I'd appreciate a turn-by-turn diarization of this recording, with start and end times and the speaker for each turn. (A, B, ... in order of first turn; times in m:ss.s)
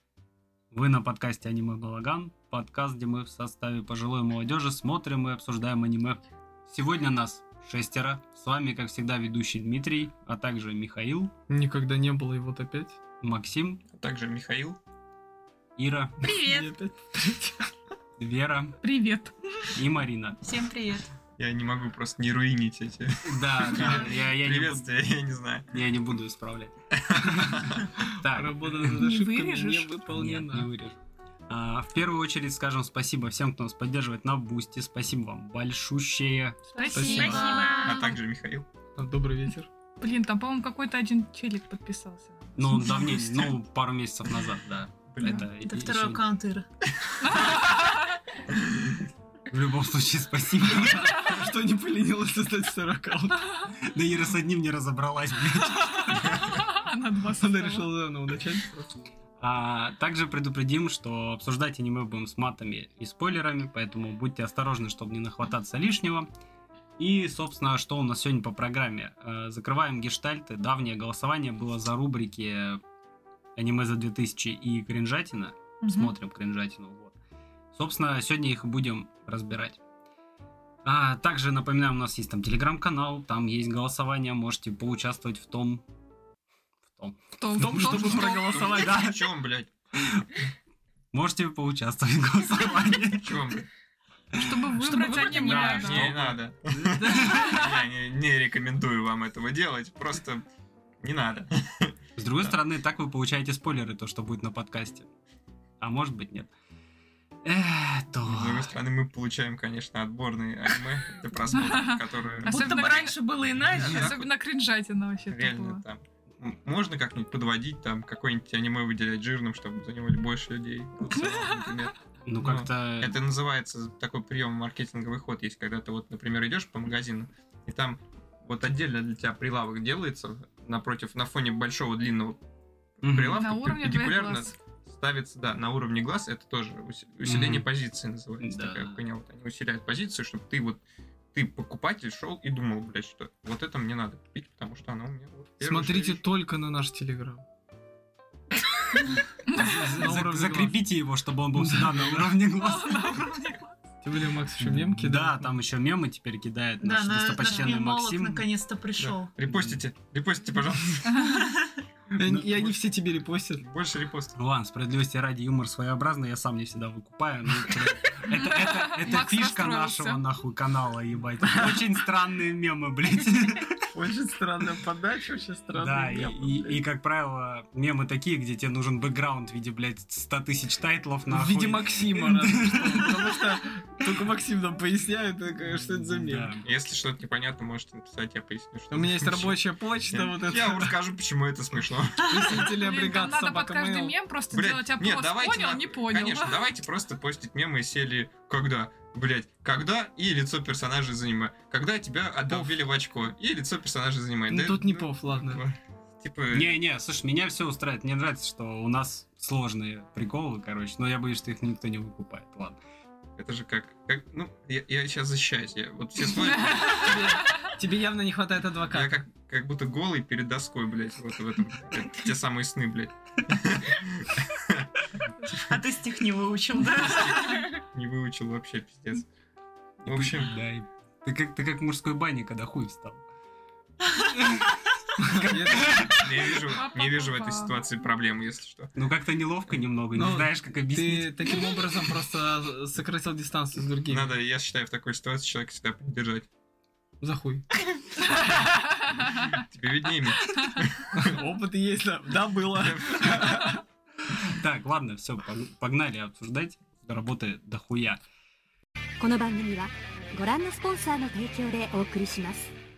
0:00.7-0:11.3 A
0:11.5-0:13.0 B
0:13.2-0:13.8 A
0:13.9-0:14.8 C
0:15.8-0:16.2 A
0:16.2-0:16.7 D
0:16.4-0:17.7 B
0:18.2-0:18.8 A
0:18.8-0:19.4 E
0:19.8-0:20.4 A
0:20.4-0:21.1 D
0:21.4-0:25.8 C
0:23.2-0:24.9 A
0:25.7-0:29.0 A
0:27.0-0:27.9 C
0:28.1-0:30.7 B
0:29.0-0:29.9 E
0:30.1-0:36.6 A
0:36.7-0:38.2 D
0:36.8-0:37.8 E
0:36.9-0:37.7 B
0:37.1-0:38.7 C
0:39.0-0:39.7 B
0:40.0-0:42.9 E
0:42.6-0:46.4 A
0:45.1-0:45.5 C
0:45.6-0:46.7 D
0:47.2-0:48.0 E
0:48.6-0:49.0 C
0:49.5-0:51.4 A
0:50.7-0:53.7 B
0:53.7-0:56.4 A
0:56.1-0:57.9 E
0:57.4-0:58.8 B
0:59.4-1:06.3 A
1:07.0-1:12.8 A
1:13.6-1:17.2 A
1:15.8-1:16.1 D
1:17.7-1:19.8 A
1:20.8-1:25.8 A
1:26.9-1:29.3 A
1:27.4-1:28.8 E
1:27.6-1:29.1 B
1:28.0-1:29.7 C
1:30.0-1:30.3 A
1:31.1-1:33.5 A
1:33.1-1:33.7 C
1:34.3-1:37.7 A
1:34.4-1:36.1 E
1:34.8-1:35.9 D
1:35.7-1:40.4 C
1:41.0-1:42.6 C
1:42.2-1:45.1 A
1:45.8-1:46.5 A
1:47.4-1:48.8 A
1:48.3-1:54.3 C
1:51.7-1:53.2 E
1:52.4-1:54.2 D
1:53.7-1:55.8 E
1:55.3-2:12.4 C
2:01.3-2:01.6 E
2:02.3-2:03.2 A
2:13.0-2:20.8 C
2:13.0-2:13.4 A
2:13.3-2:14.5 E
2:17.2-2:17.7 A
2:18.4-2:19.0 A
2:21.3-2:26.2 C
2:25.6-2:27.4 B
2:29.5-2:29.9 E
2:29.5-2:33.2 A
2:29.9-2:30.8 B
2:31.6-2:32.4 B
2:32.6-2:33.7 E
2:34.0-2:35.6 B
2:34.6-2:38.5 A
2:36.8-2:39.4 D
2:39.0-2:41.4 C
2:39.5-2:39.8 A
2:41.3-2:41.7 D
2:42.1-2:43.6 B
2:42.2-2:42.5 A
2:43.6-2:44.4 C
2:44.4-2:53.9 A
2:48.3-2:50.2 E
2:51.4-2:51.8 B
2:53.9-2:56.8 B
2:55.8-3:04.1 A
3:01.3-3:06.5 B
3:06.1-3:06.6 A
3:06.6-3:09.6 C
3:08.9-3:10.9 B
3:10.1-3:12.7 C
3:12.2-3:14.1 B
3:12.7-3:16.6 E
3:14.5-3:26.8 C
3:22.5-3:22.8 B
3:24.5-3:25.6 B
3:26.5-3:32.8 A
3:33.4-3:37.2 C
3:36.6-3:39.2 B
3:38.9-3:45.6 C
3:45.7-3:47.8 D
3:47.0-3:49.3 C
3:50.0-3:50.5 C
3:50.1-3:53.2 A
3:54.1-3:56.6 A
3:55.2-3:56.1 B
3:56.2-3:58.9 C
3:56.7-3:57.8 E
3:59.0-4:01.8 A
4:00.1-4:04.4 B
4:04.1-4:06.5 C
4:07.2-4:07.6 B
4:09.2-4:11.4 C
4:11.1-4:13.8 B
4:12.8-4:13.6 C
4:14.3-4:18.2 A
4:19.2-4:22.7 F